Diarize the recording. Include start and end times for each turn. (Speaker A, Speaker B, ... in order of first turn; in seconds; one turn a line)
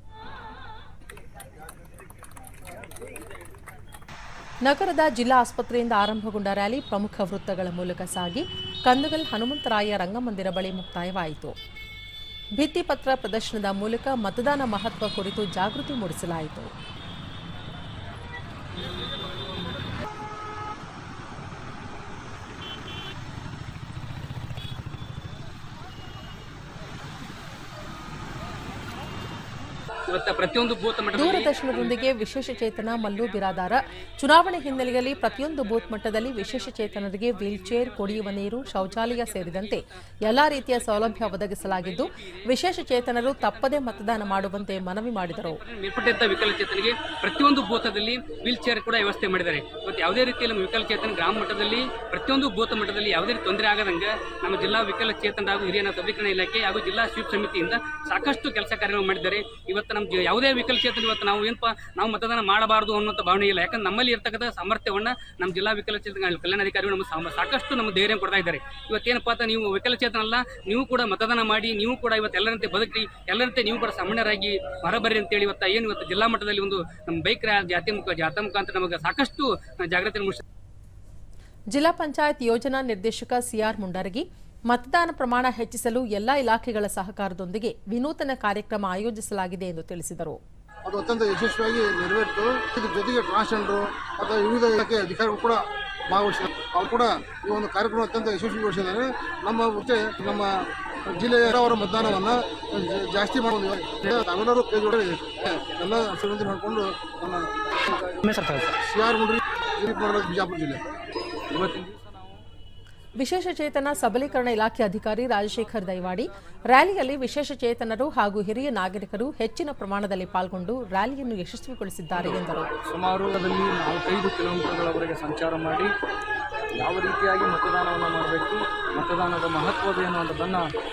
Speaker A: 4.6-11.5
Speaker A: 12.6-16.7
Speaker B: 30.1-31.9
Speaker A: 31.1-45.6
Speaker B: 36.6-80.4
Speaker A: 81.7-90.4
Speaker C: 90.8-108.0
Speaker D: 108.2-108.5
Speaker C: 108.8-110.8
Speaker D: 111.5-112.4
Speaker A: 113.2-122.7
Speaker D: 122.2-125.9
Speaker D: 126.7-130.6